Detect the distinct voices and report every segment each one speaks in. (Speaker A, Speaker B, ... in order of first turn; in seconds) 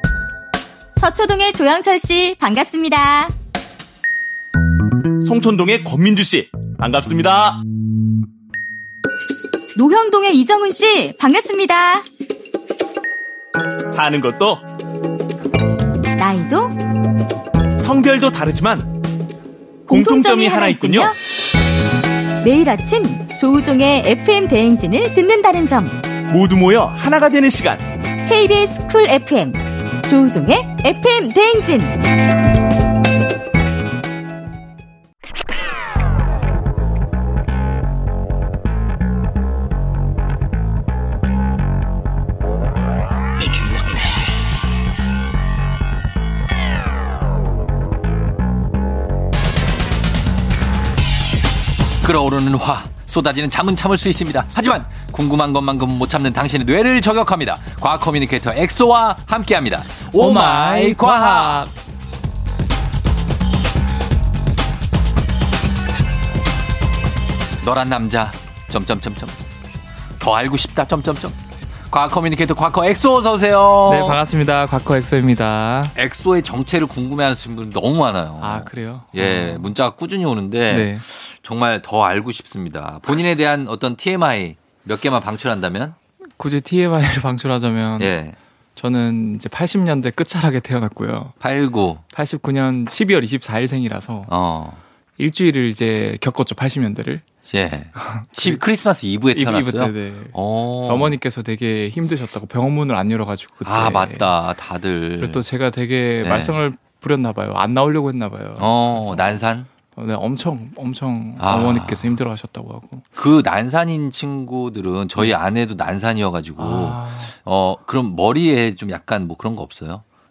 Speaker A: 0.9-3.3, 9.7-12.1, 16.2-16.8, 19.9-21.1, 22.4-26.0, 28.2-32.0
Speaker B: 5.2-7.6, 13.9-14.6, 17.8-18.9, 19.9-21.1, 26.3-27.8
Speaker C: 52.0-61.6, 67.6-69.4, 70.2-71.4, 71.9-74.2, 75.9-86.0, 88.0-88.4, 91.4-92.0, 94.3-94.8, 97.5-101.2, 103.6-105.5, 106.2-106.6, 108.6-109.7, 111.4-112.2, 113.2-120.0
Speaker D: 60.1-61.7, 73.8-75.9, 78.4-79.7, 80.7-81.0, 86.4-88.1, 88.8-91.3, 92.1-94.3, 95.2-97.2, 98.0-98.6, 99.3-104.3, 105.2-113.0, 116.6-117.3